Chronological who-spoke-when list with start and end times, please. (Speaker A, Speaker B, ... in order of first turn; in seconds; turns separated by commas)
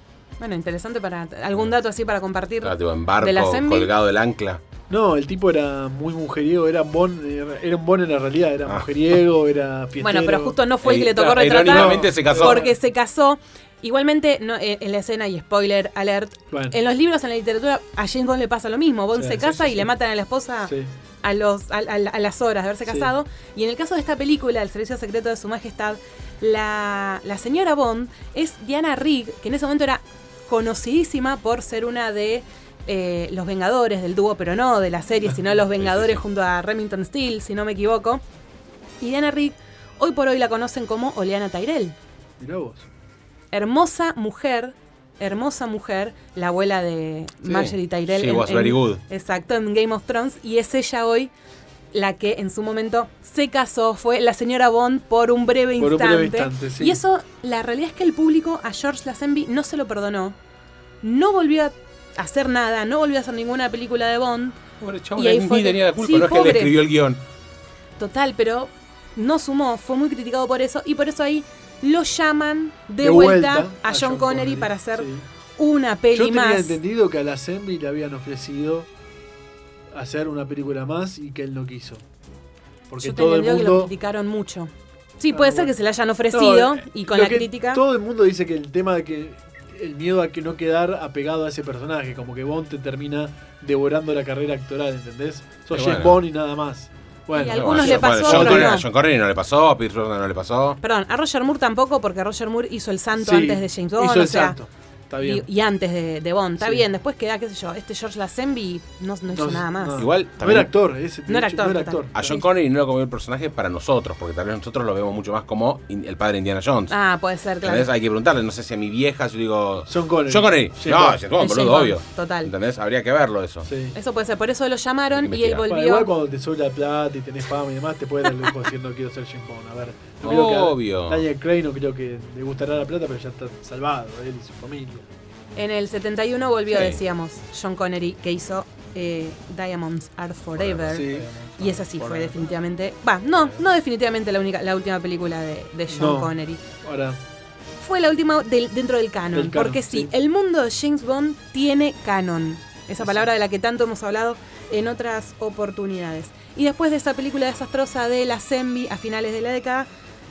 Speaker A: 0.4-3.9, Speaker B: 2.6-4.6, Speaker C: 4.9-10.6, Speaker A: 10.0-38.2, Speaker B: 10.8-12.6, Speaker C: 11.5-12.8, Speaker C: 16.5-16.8, Speaker C: 19.1-19.9, Speaker C: 22.9-23.1, Speaker B: 35.8-36.2, Speaker A: 39.0-42.0, Speaker C: 42.4-42.9, Speaker A: 43.5-51.3, Speaker B: 47.5-49.0, Speaker A: 51.9-60.4, Speaker C: 55.8-57.0, Speaker A: 61.0-64.6, Speaker B: 64.8-67.2, Speaker A: 65.2-66.8, Speaker A: 68.0-76.8, Speaker C: 73.0-75.2, Speaker C: 76.1-78.9, Speaker C: 79.9-82.0, Speaker C: 82.9-83.9, Speaker A: 83.0-87.8, Speaker C: 85.3-85.7, Speaker C: 86.3-98.8, Speaker B: 95.7-96.2, Speaker A: 97.3-98.9, Speaker B: 97.5-100.8, Speaker A: 100.8-104.6, Speaker C: 103.2-105.5, Speaker A: 105.2-110.0, Speaker C: 109.3-112.4, Speaker B: 110.0-110.7, Speaker A: 111.3-112.5, Speaker B: 112.2-117.0, Speaker A: 116.9-117.9, Speaker B: 117.6-123.7, Speaker C: 119.9-121.2, Speaker A: 121.4-122.5, Speaker C: 123.7-124.0, Speaker A: 124.0-126.1, Speaker B: 125.1-125.7, Speaker C: 125.7-135.1, Speaker B: 130.2-131.3, Speaker A: 135.6-146.6, Speaker B: 136.7-137.0, Speaker B: 140.6-141.0, Speaker C: 140.9-142.4, Speaker C: 145.9-147.2, Speaker A: 147.8-159.9, Speaker C: 149.3-150.1